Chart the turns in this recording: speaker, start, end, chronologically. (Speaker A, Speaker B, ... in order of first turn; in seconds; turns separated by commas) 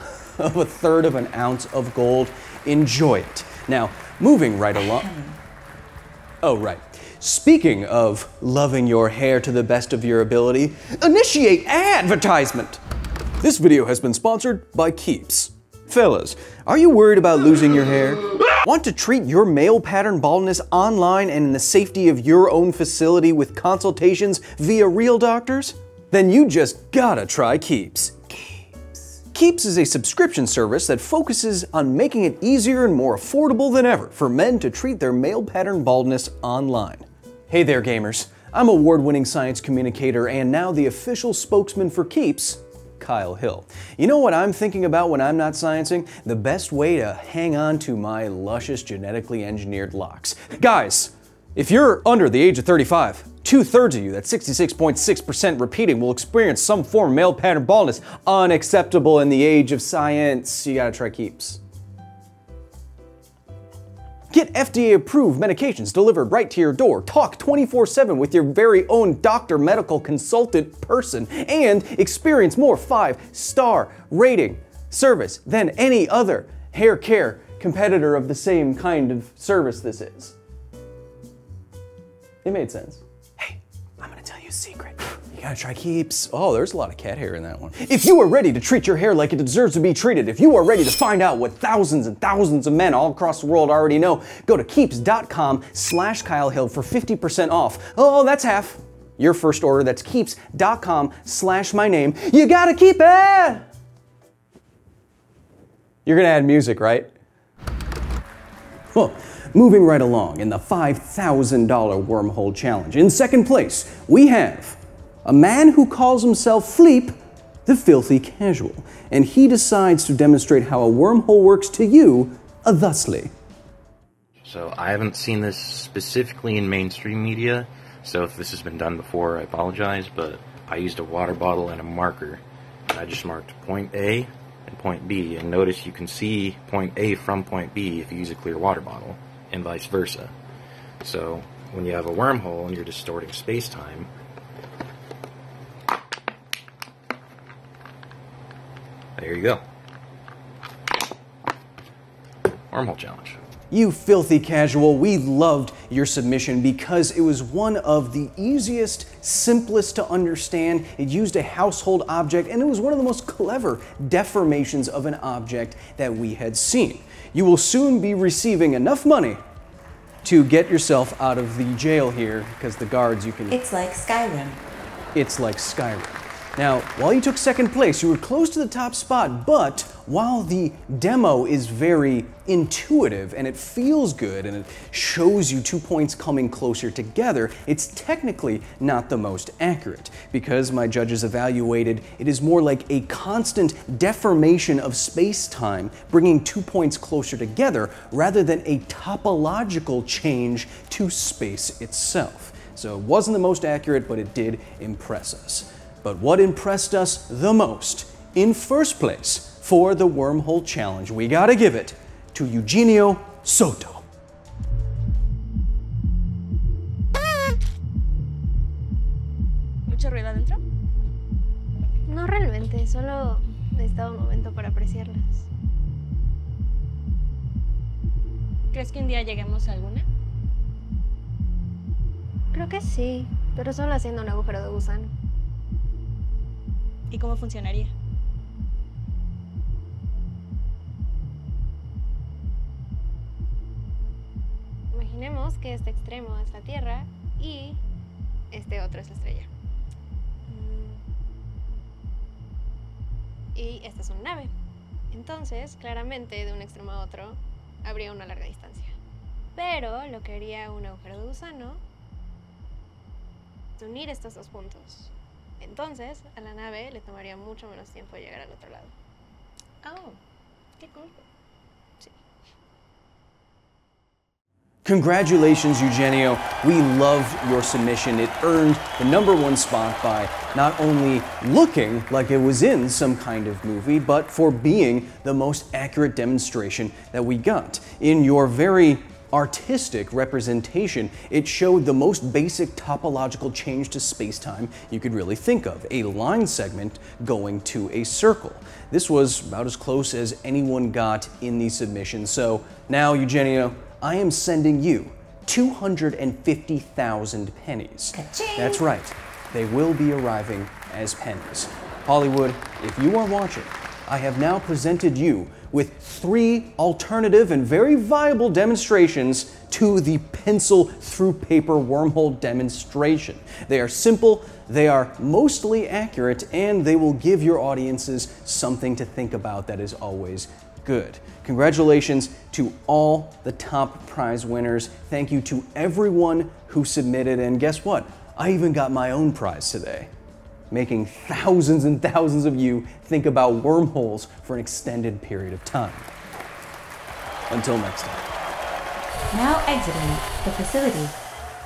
Speaker A: 0.2-5.1, Speaker B: 4.7-5.4, Speaker A: 6.4-12.8, Speaker A: 13.4-28.2, Speaker A: 29.3-61.6, Speaker A: 64.3-80.3, Speaker A: 82.4-103.7, Speaker A: 106.0-107.1, Speaker A: 108.9-117.1, Speaker A: 117.7-123.3, Speaker C: 124.4-140.3, Speaker C: 141.0-144.1, Speaker C: 149.2-149.6, Speaker C: 152.7-153.4, Speaker A: 153.7-169.4, Speaker A: 170.2-173.6, Speaker B: 173.5-174.6, Speaker A: 175.1-214.0, Speaker D: 219.9-220.6, Speaker E: 222.1-225.4, Speaker D: 228.7-230.1, Speaker E: 232.5-235.1, Speaker D: 237.1-237.9, Speaker E: 244.9-247.8, Speaker E: 248.5-249.5, Speaker E: 250.5-251.0, Speaker E: 253.5-254.5, Speaker E: 255.1-258.9, Speaker E: 259.6-261.8, Speaker E: 263.8-268.9, Speaker D: 269.8-270.2, Speaker D: 270.8-271.1, Speaker A: 274.8-340.1, Speaker B: 308.1-308.8, Speaker A: 340.7-346.1, Speaker A: 347.5-348.3, Speaker B: 349.3-351.1